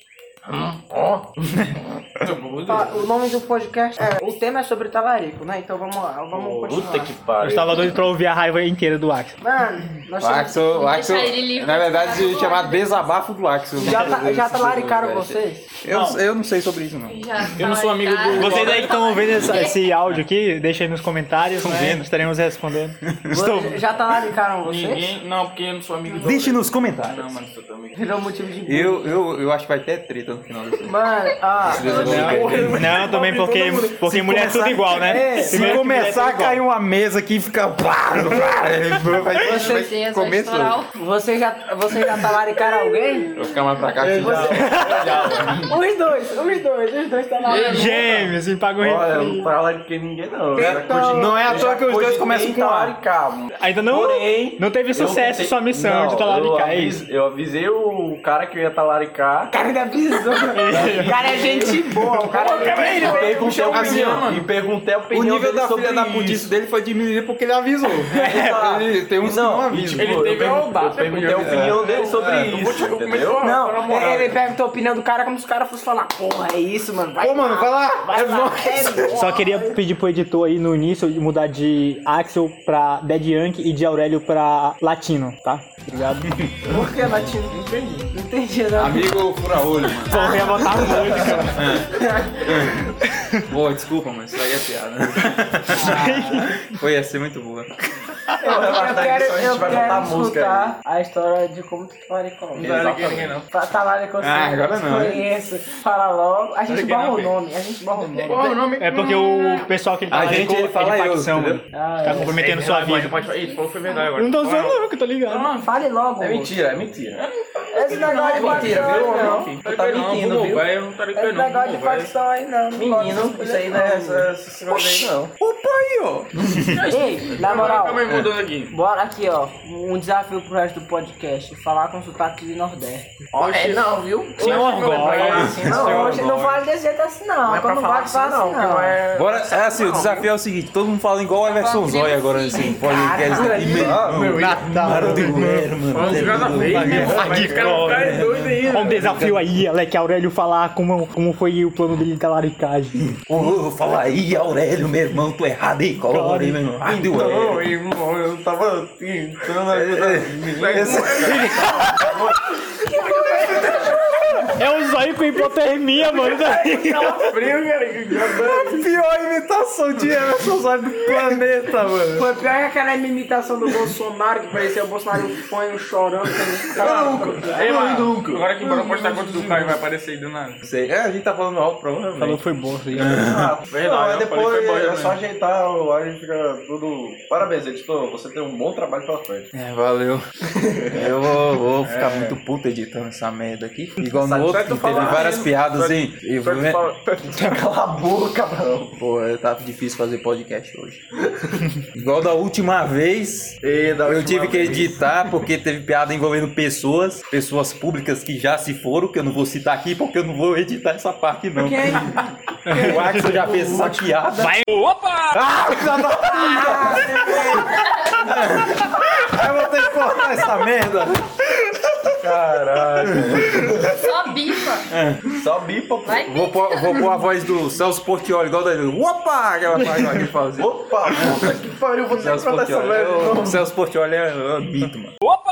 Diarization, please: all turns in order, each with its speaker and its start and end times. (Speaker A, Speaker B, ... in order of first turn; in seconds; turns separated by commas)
Speaker A: 0.5-2.0, Speaker B: 2.2-3.1, Speaker C: 2.6-7.1, Speaker B: 6.3-6.8, Speaker A: 6.7-8.0, Speaker D: 7.4-9.3, Speaker C: 9.4-10.6, Speaker E: 10.2-17.2, Speaker F: 10.7-13.1, Speaker C: 13.8-15.7, Speaker B: 15.9-16.2, Speaker F: 17.1-19.8, Speaker B: 17.5-18.9, Speaker D: 18.3-23.7, Speaker E: 21.6-22.1, Speaker E: 23.1-23.5, Speaker C: 23.3-25.1, Speaker B: 24.6-28.0, Speaker E: 26.2-27.4, Speaker C: 27.9-29.1, Speaker E: 28.6-33.1, Speaker C: 30.8-32.1, Speaker F: 31.7-32.4, Speaker D: 31.8-36.6, Speaker A: 32.1-33.2, Speaker B: 32.2-33.9, Speaker E: 33.9-40.8, Speaker C: 35.0-35.8, Speaker C: 39.3-39.9, Speaker F: 39.4-40.9, Speaker C: 40.9-43.4, Speaker E: 43.3-44.7, Speaker B: 44.0-45.7, Speaker A: 44.1-45.7, Speaker C: 44.2-48.0, Speaker D: 44.4-45.2, Speaker B: 47.4-48.3, Speaker D: 47.6-49.5, Speaker A: 48.8-59.6, Speaker E: 50.5-53.0, Speaker C: 50.5-51.7, Speaker D: 53.6-57.0, Speaker C: 59.5-64.0, Speaker D: 60.5-61.1, Speaker A: 60.7-61.8, Speaker B: 62.2-64.5, Speaker A: 62.8-66.5, Speaker E: 63.6-64.4, Speaker E: 65.1-70.2, Speaker A: 68.1-73.4, Speaker B: 70.0-74.4, Speaker E: 71.3-72.5, Speaker C: 73.4-79.8, Speaker E: 77.2-79.2, Speaker D: 79.1-86.4, Speaker C: 86.6-89.2, Speaker E: 88.7-90.4, Speaker D: 90.1-91.8, Speaker C: 90.1-92.7, Speaker E: 91.5-92.9, Speaker E: 93.5-97.7, Speaker D: 95.8-96.7, Speaker C: 98.4-102.8, Speaker A: 98.4-100.8, Speaker B: 102.5-103.5, Speaker A: 102.6-103.4, Speaker C: 103.5-108.6, Speaker E: 104.2-105.2, Speaker B: 106.7-107.3, Speaker A: 106.9-107.2, Speaker B: 108.1-109.7, Speaker D: 108.7-113.2, Speaker E: 110.1-111.6, Speaker C: 111.7-112.4, Speaker B: 112.1-115.7, Speaker F: 113.2-114.0, Speaker D: 114.1-115.5, Speaker C: 115.3-116.6, Speaker A: 116.2-117.2, Speaker B: 117.2-122.1, Speaker C: 117.7-119.5, Speaker A: 117.9-120.7, Speaker E: 118.0-118.7, Speaker C: 121.1-124.3, Speaker A: 122.7-125.3, Speaker E: 124.7-126.8, Speaker B: 126.6-128.8, Speaker C: 126.9-128.1, Speaker E: 128.0-128.3, Speaker C: 128.7-133.1, Speaker B: 133.3-136.3, Speaker A: 133.3-136.3, Speaker D: 134.4-135.6, Speaker C: 134.5-139.0, Speaker E: 135.2-136.6, Speaker A: 137.4-140.2, Speaker B: 139.0-140.2, Speaker E: 139.1-149.4, Speaker F: 141.4-142.8, Speaker C: 142.5-144.0, Speaker A: 143.3-145.4, Speaker B: 143.7-144.3, Speaker D: 144.2-153.2, Speaker B: 145.9-149.1, Speaker A: 146.0-146.3, Speaker A: 147.0-147.7, Speaker E: 153.0-157.6, Speaker D: 156.0-156.7, Speaker A: 156.8-162.4, Speaker E: 159.7-162.2, Speaker B: 160.7-161.6, Speaker C: 162.7-164.6, Speaker D: 164.5-167.4, Speaker B: 167.0-168.9, Speaker E: 168.3-172.3, Speaker C: 172.1-177.7, Speaker E: 176.7-177.9, Speaker B: 176.7-180.6, Speaker A: 177.6-178.6, Speaker E: 178.6-179.8, Speaker E: 180.6-182.4, Speaker D: 182.2-183.2, Speaker E: 182.9-183.6, Speaker A: 183.0-189.5, Speaker B: 183.7-185.2, Speaker E: 189.5-190.2, Speaker A: 190.4-191.3, Speaker E: 190.9-196.8, Speaker B: 191.9-192.3, Speaker A: 194.1-195.5, Speaker B: 194.4-197.6, Speaker A: 197.2-199.0, Speaker E: 199.0-201.0, Speaker A: 201.3-201.6, Speaker E: 201.9-212.1, Speaker A: 203.6-205.2, Speaker C: 211.6-212.2, Speaker D: 212.7-213.6, Speaker E: 212.7-214.6, Speaker D: 214.4-214.7, Speaker E: 215.3-224.1, Speaker C: 216.3-218.0, Speaker A: 222.2-224.0, Speaker F: 223.9-224.9, Speaker E: 224.9-225.4, Speaker A: 225.3-226.2, Speaker F: 226.0-227.2, Speaker E: 226.2-231.6, Speaker A: 230.6-233.6, Speaker E: 232.2-235.2